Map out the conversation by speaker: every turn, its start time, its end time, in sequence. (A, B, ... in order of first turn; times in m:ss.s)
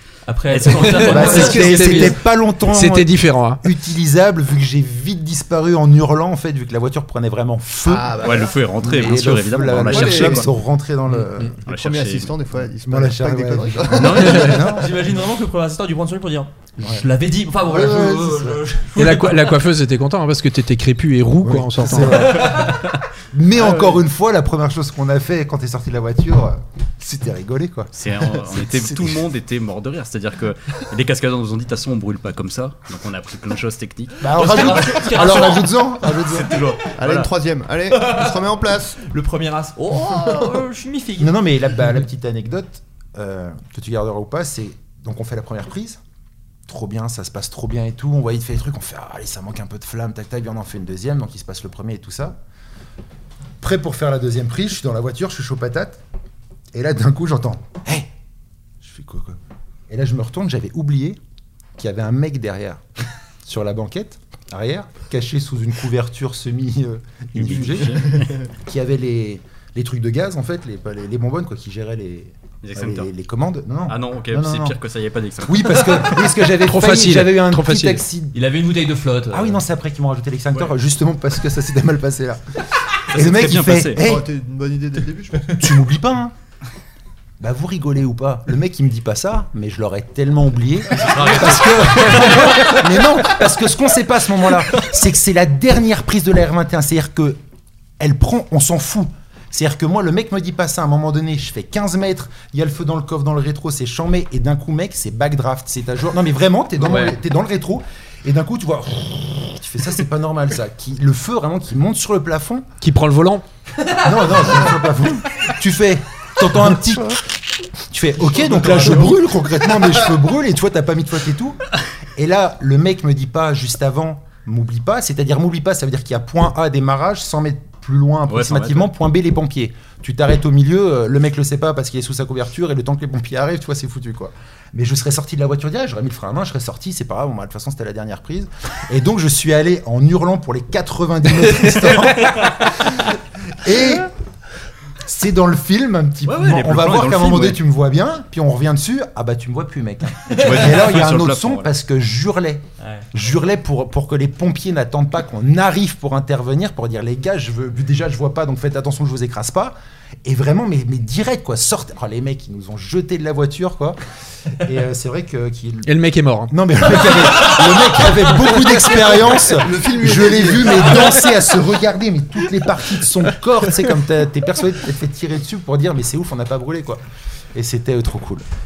0:00.3-0:02.2 A
0:00.5-0:01.5 B
0:00.7-0:03.6 C
0:01.0-0:11.5 D
0:07.9-0:08.5 E
0:08.2-0:10.5 B
0:09.9-0:10.4 E
0:11.7-0:14.4 E
0:11.7-0:12.3 B
0:12.8-0:15.0 D
0:14.0-0:14.5 B
0:14.2-0:19.6 A
0:16.8-0:17.1 D
0:17.7-0:18.6 D
0:19.0-0:22.8 C
0:21.4-0:22.8 D
0:23.3-0:29.2 D
0:27.9-0:35.4 B
0:34.2-0:36.6 D
0:34.3-0:35.9 A
0:36.1-0:37.3 B
0:37.0-0:39.0 E
0:37.9-0:38.4 A
0:39.0-0:41.4 A
0:40.1-0:40.5 E
0:41.2-0:46.0 D
0:46.7-0:52.4 D
0:53.6-0:56.0 D
0:56.7-0:58.1 D
0:58.8-0:59.4 D
0:59.9-1:01.2 D
1:01.8-1:02.8 D
1:03.4-1:14.8 D
1:07.4-1:08.4 B
1:12.6-1:13.1 B
1:13.9-1:16.2 B
1:15.4-1:18.4 D
1:16.6-1:18.0 C
1:18.3-1:19.6 A
1:19.3-1:22.6 D
1:23.1-1:24.0 B
1:23.1-1:24.3 D
1:23.9-1:25.6 E
1:25.5-1:26.3 D
1:27.4-1:37.4 D
1:31.0-1:32.5 B
1:38.0-1:52.7 D
1:52.8-1:53.4 C
1:54.0-1:57.3 D
1:57.9-2:01.6 D
1:58.5-1:59.2 B
2:02.2-2:24.1 D
2:08.3-2:08.9 B
2:25.0-2:44.0 D
2:26.3-2:27.6 B
2:30.3-2:31.7 B
2:32.8-2:33.0 A
2:44.6-2:46.0 D
2:45.8-2:46.5 C
2:46.5-2:57.0 D
2:49.5-2:50.9 E
2:57.5-2:58.4 D